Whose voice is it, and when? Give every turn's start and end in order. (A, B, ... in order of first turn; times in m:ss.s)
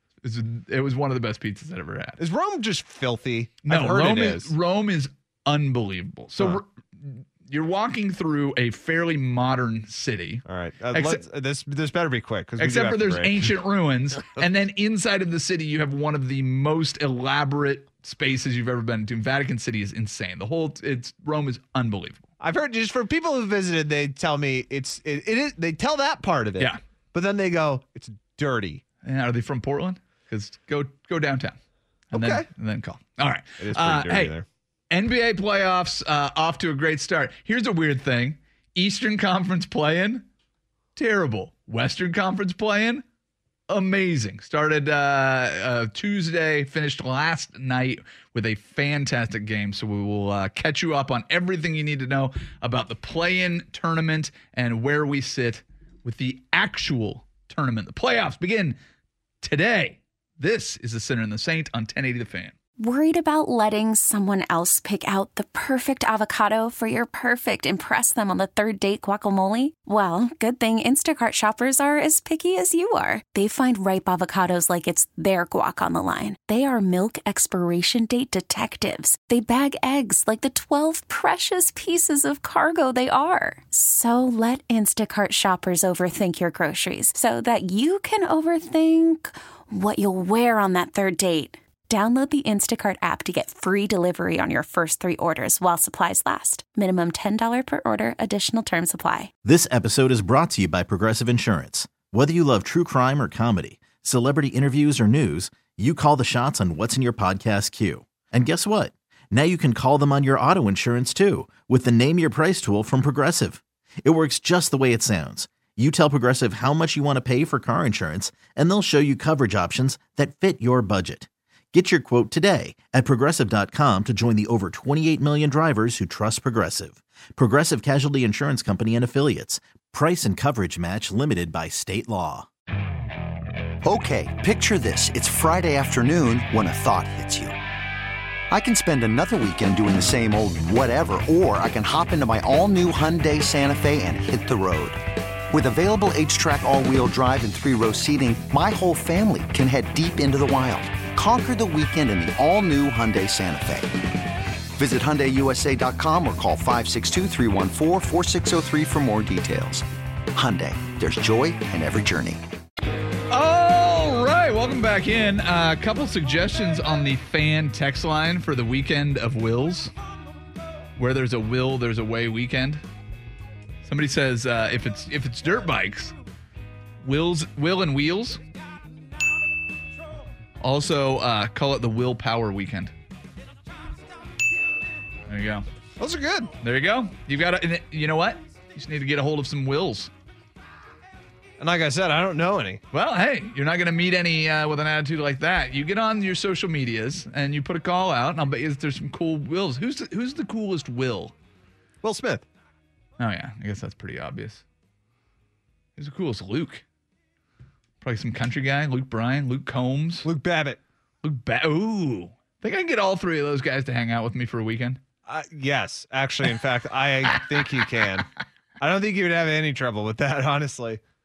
0:00.2-0:02.2 A
0:02.2-0:04.5 B
0:03.6-0:11.2 A
0:10.5-0:13.5 B
0:12.6-0:22.2 A
0:22.4-0:28.8 B
0:29.0-0:31.6 A
0:32.1-0:34.3 A
0:32.1-0:32.4 B
0:33.6-0:34.4 B
0:34.9-0:40.3 A
0:41.0-0:43.0 A
0:43.7-0:58.8 A
0:59.4-1:02.5 A
1:02.8-1:39.3 C
1:39.4-2:12.5 D
2:13.8-2:17.6 E
2:18.5-2:33.9 E
2:34.8-2:42.4 E
2:43.3-2:49.9 A
2:51.0-2:52.8 A
2:53.8-2:56.1 A
2:57.0-2:58.4 A
3:00.6-3:02.9 A
3:05.3-3:05.6 A
3:06.0-3:06.5 B
3:06.6-3:10.1 A
3:11.6-3:12.8 B
3:12.9-3:21.3 A
3:22.0-3:22.4 B
3:23.2-3:24.6 A
3:26.0-3:26.8 A
3:28.0-3:30.3 A
3:30.2-3:30.8 B
3:31.2-3:35.0 A
3:35.3-3:38.3 B
3:38.8-3:41.0 B